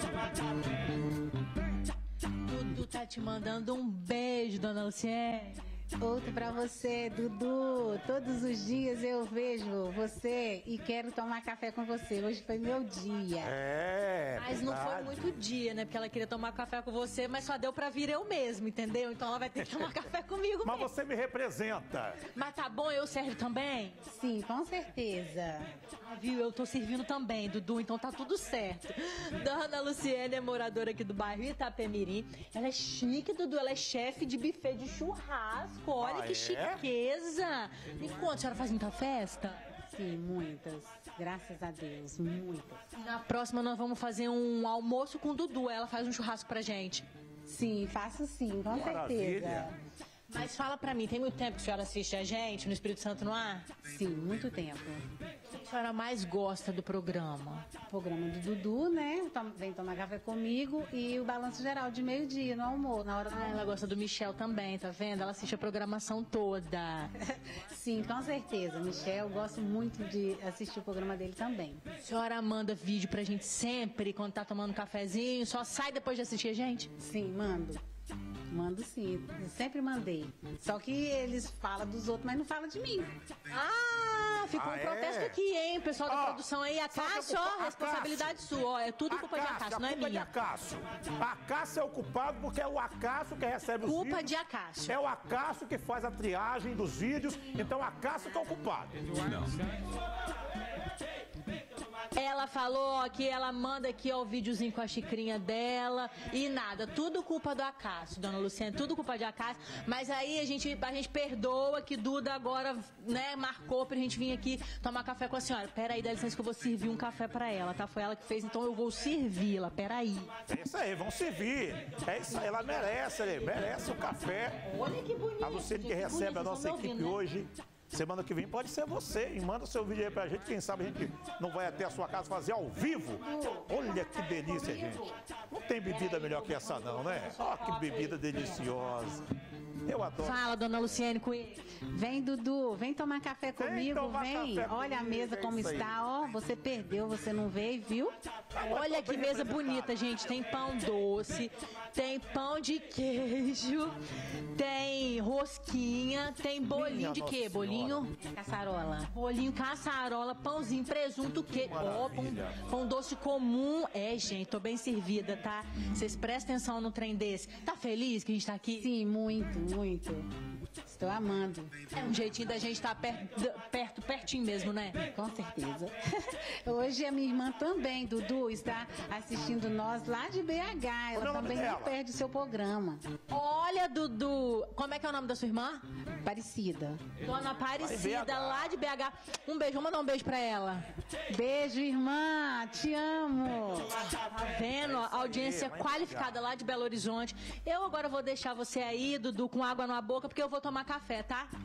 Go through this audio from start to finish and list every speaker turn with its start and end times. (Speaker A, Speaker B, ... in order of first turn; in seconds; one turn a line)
Speaker A: 2.5-5.6
Speaker B: 6.0-13.5
Speaker C: 13.4-15.3
Speaker A: 14.4-20.9
Speaker C: 19.6-19.9
Speaker C: 20.6-22.2
Speaker A: 22.3-24.0
Speaker B: 24.1-25.7
Speaker A: 26.0-39.6
Speaker C: 36.0-36.8
Speaker B: 39.9-42.8
Speaker A: 42.9-47.1
Speaker B: 47.5-49.7
Speaker C: 48.7-49.7
Speaker A: 50.3-53.7
Speaker B: 53.9-55.0
Speaker A: 55.5-57.7
Speaker B: 57.9-63.8
Speaker A: 63.3-67.1
Speaker B: 67.4-71.8
Speaker A: 72.0-76.9
Speaker B: 77.0-77.8
Speaker B: 78.5-83.1
Speaker A: 83.5-90.3
Speaker C: 84.5-85.4
Speaker C: 86.1-88.4
Speaker C: 89.1-94.3
Speaker A: 93.8-95.0
Speaker C: 94.9-99.0
Speaker A: 102.1-120.3
Speaker C: 120.5-124.6
Speaker A: 124.6-127.2
Speaker C: 125.4-139.3
Speaker B: 133.2-134.9
Speaker A: 135.9-139.1
Speaker C: 139.8-141.0
Speaker A: 140.2-141.7
Speaker B: 141.9-148.1
Speaker C: 143.6-146.0
Speaker C: 148.5-150.0
Speaker A: 148.6-154.0
Speaker A: 154.5-158.2
Speaker C: 156.7-158.1
Speaker B: 158.2-159.1
Speaker A: 159.1-168.9
Speaker C: 161.5-162.6
Speaker B: 168.8-170.3
Speaker B: 170.9-171.8
Speaker A: 171.9-175.0
Speaker B: 175.1-183.0
Speaker C: 181.1-181.9
Speaker A: 183.3-185.8
Speaker B: 186.2-187.0
Speaker A: 187.2-190.8
Speaker C: 187.8-188.8
Speaker B: 191.3-193.9
Speaker A: 194.0-201.5
Speaker C: 194.7-196.4